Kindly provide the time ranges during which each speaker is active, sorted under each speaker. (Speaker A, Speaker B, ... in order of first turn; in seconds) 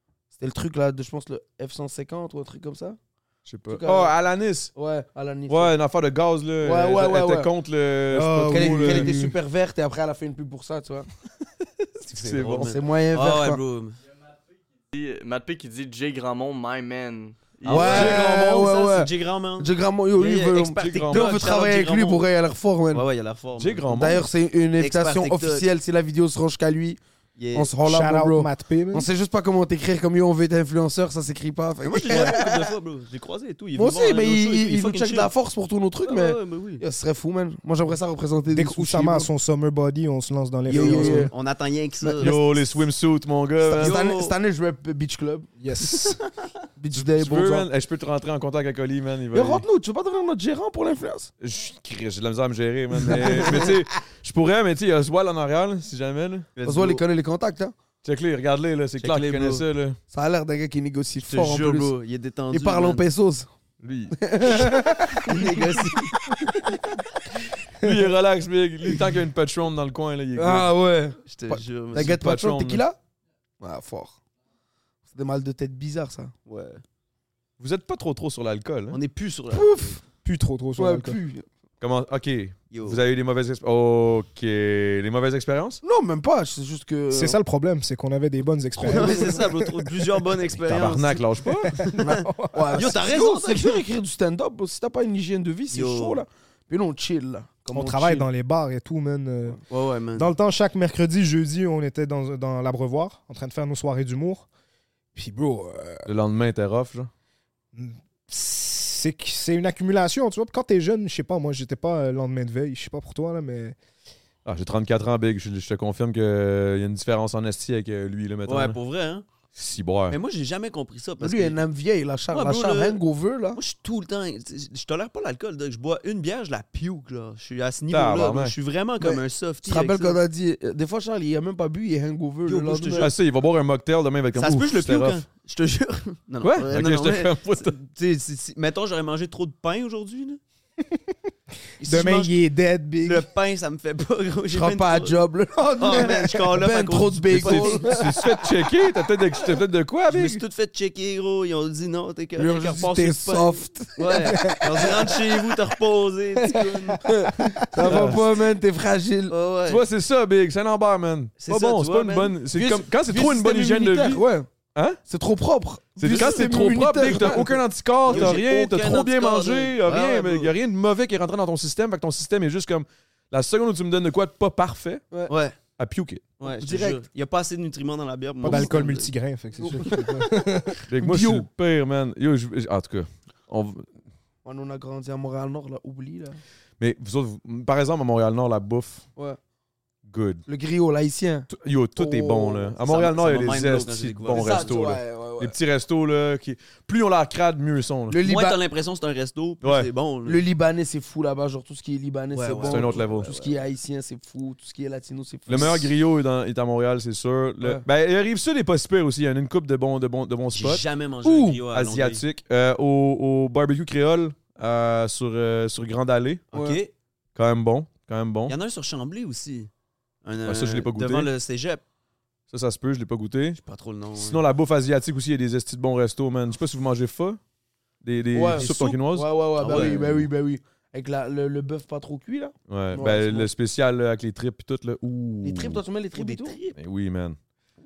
Speaker A: 0.3-3.0, 3.7-4.1, 4.7-5.7, 6.6-7.5, 8.5-11.1, 12.7-13.6, 17.6-23.0, 23.9-27.0, 27.5-32.7, 33.8-39.3, 40.7-41.3, 43.6-45.5, 46.8-47.7, 49.3-51.3, 53.1-53.6, 56.6-57.7, 60.1-61.9, 62.5-63.5, 64.1-66.8, 70.3-73.0, 73.6-74.2, 75.1-76.3, 79.5-80.0, 80.8-81.4, 85.8-87.4, 88.8-89.5, 92.0-98.3, 121.2-123.6, 129.0-133.1, 144.5-148.1, 152.4-155.3, 157.0-159.3, 162.5-164.5, 165.1-168.4, 176.4-177.0, 178.4-178.8, 179.5-180.4, 181.0-181.4, 184.4-186.4, 190.5-192.7, 194.3-195.5, 198.1-198.6, 200.2-205.9, 211.2-211.6, 216.5-216.8, 228.3-233.5, 235.4-236.6
Speaker B: 3.5-4.7, 5.5-9.1, 11.6-12.7, 17.7-18.7, 20.8-21.4, 23.6-24.3, 42.2-44.0, 46.9-49.6, 51.4-56.5, 58.0-60.0, 63.8-64.5, 67.8-70.7, 71.9-72.8, 77.6-79.0, 81.8-85.8, 90.7-91.7, 106.0-107.1, 114.4-118.8, 119.5-120.2, 127.9-128.5, 132.9-135.2, 136.4-137.8, 147.3-150.4, 157.8-158.2, 159.7-164.2, 166.0-175.0, 175.8-176.2, 180.9-183.9, 186.8-189.0, 190.1-190.4, 191.5-198.2, 199.6-199.9, 202.6-203.3, 205.5-210.8, 211.7-216.4, 217.3-218.5, 220.4-221.3, 222.5-223.6, 224.2-227.4, 228.0-230.3, 232.7-235.8, 236.7-237.4
Speaker C: 8.1-9.3, 27.8-29.1, 38.5-41.3, 45.6-46.2, 80.2-81.2, 87.1-90.0, 91.6-92.9, 97.7-99.6, 100.2-104.5, 105.1-106.0, 107.7-113.8, 141.8-143.3, 154.2-154.9, 156.5-158.0, 178.4-180.8
Speaker D: 12.1-14.0, 17.6-22.2, 22.9-23.9, 24.8-25.6, 27.4-27.7, 31.9-35.3, 36.0-36.8, 40.7-42.8, 43.7-44.4, 45.8-46.5, 53.3-53.7, 56.5-57.0, 59.0-59.6, 61.3-63.0, 65.2-66.5, 71.3-72.2, 76.5-76.8, 78.9-80.0, 82.7-83.0, 88.8-93.8, 95.7-96.2, 99.7-100.3, 118.5-119.2, 120.1-121.6, 122.3-123.0, 123.5-130.2, 132.4-133.1, 134.3-140.4, 141.8-142.4, 143.0-145.2, 145.8-148.0, 150.1-157.0, 159.3-159.8, 161.4-162.4, 166.1-166.4, 168.1-170.5, 175.3-175.6, 176.4-179.1, 192.8-194.8, 198.2-200.4, 202.3-203.6, 210.5-212.2, 216.5-216.9, 218.5-219.7, 220.2-221.8, 223.6-224.4, 228.6-229.0, 229.6-230.0, 236.1-236.8
Speaker E: 14.9-17.9